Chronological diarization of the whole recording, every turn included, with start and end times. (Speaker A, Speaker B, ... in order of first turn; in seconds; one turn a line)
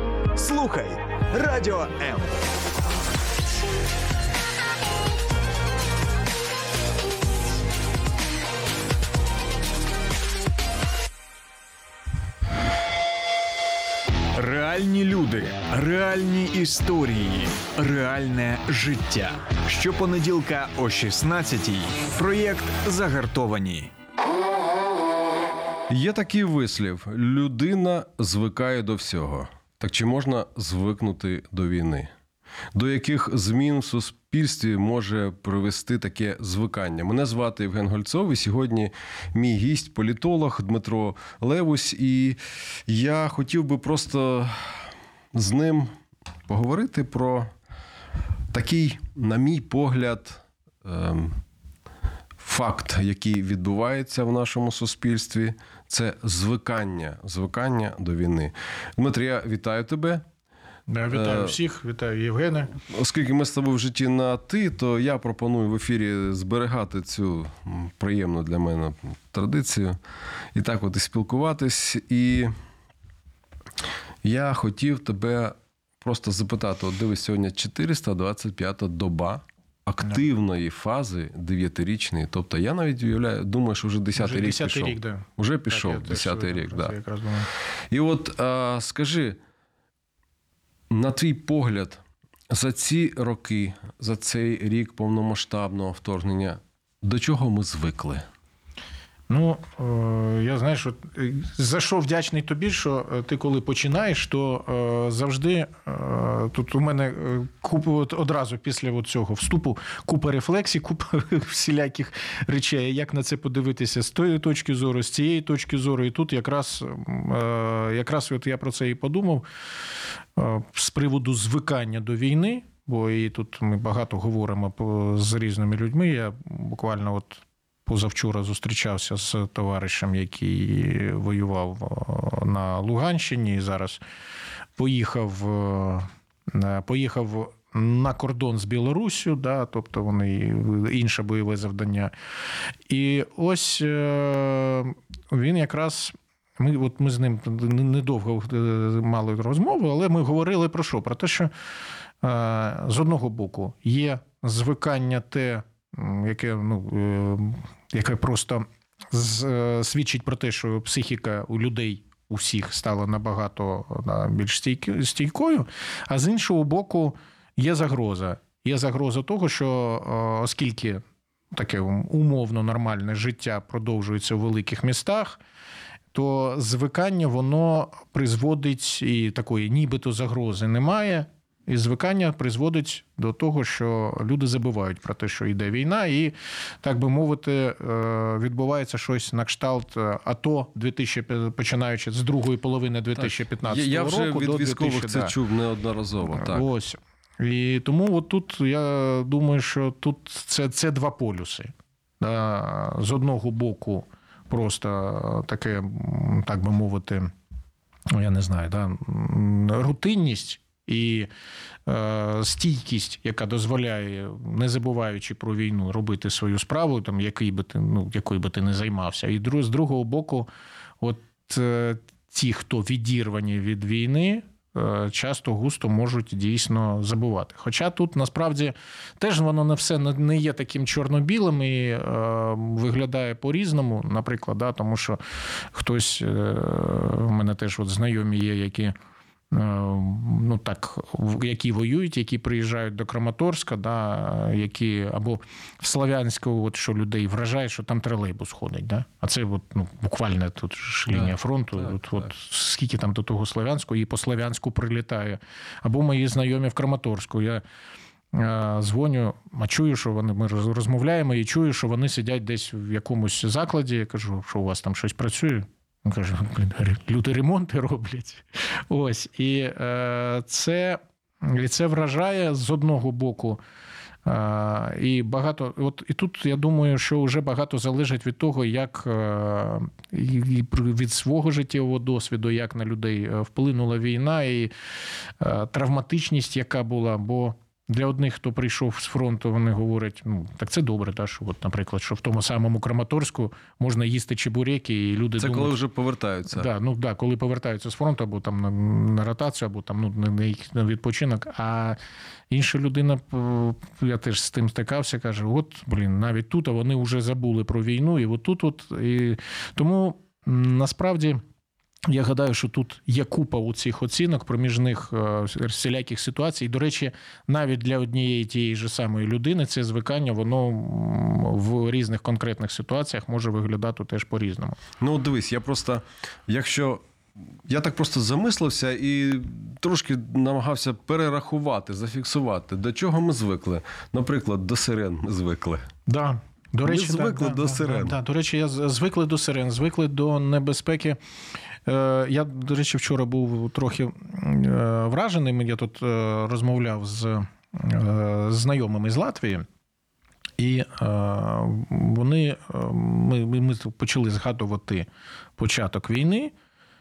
Speaker A: 0.3-2.4
Speaker A: 14.3-23.9
Speaker B: 25.9-32.1
Speaker B: 32.7-45.9
Speaker B: 46.5-47.5
Speaker B: 48.5-51.4
Speaker B: 52.4-60.2
Speaker C: 60.9-62.7
Speaker B: 61.1-61.6
Speaker B: 62.9-70.0
Speaker B: 70.5-72.5
Speaker B: 74.2-86.9
Speaker C: 84.2-87.5
Speaker B: 87.9-89.4
Speaker B: 90.9-98.2
Speaker C: 99.3-119.5
Speaker C: 120.3-134.0
Speaker C: 134.8-142.1
Speaker C: 142.9-151.5
Speaker C: 152.2-175.4
Speaker C: 176.1-195.3
Speaker B: 193.2-196.7
Speaker C: 196.3-207.3
Speaker C: 208.1-211.3
Speaker C: 211.8-220.5
Speaker C: 221.0-235.2
Speaker C: 235.7-238.9
Speaker C: 239.5-257.6
Speaker B: 251.1-252.2
Speaker C: 258.3-273.6
Speaker C: 274.2-284.7
Speaker C: 285.4-295.8
Speaker B: 295.4-296.7
Speaker C: 296.5-302.0
Speaker C: 302.5-311.4
Speaker C: 312.1-324.8
Speaker B: 325.0-327.0
Speaker B: 327.7-335.9
Speaker C: 336.1-341.2
Speaker B: 336.9-338.2
Speaker C: 341.9-349.6
Speaker C: 350.6-355.1
Speaker C: 355.6-356.5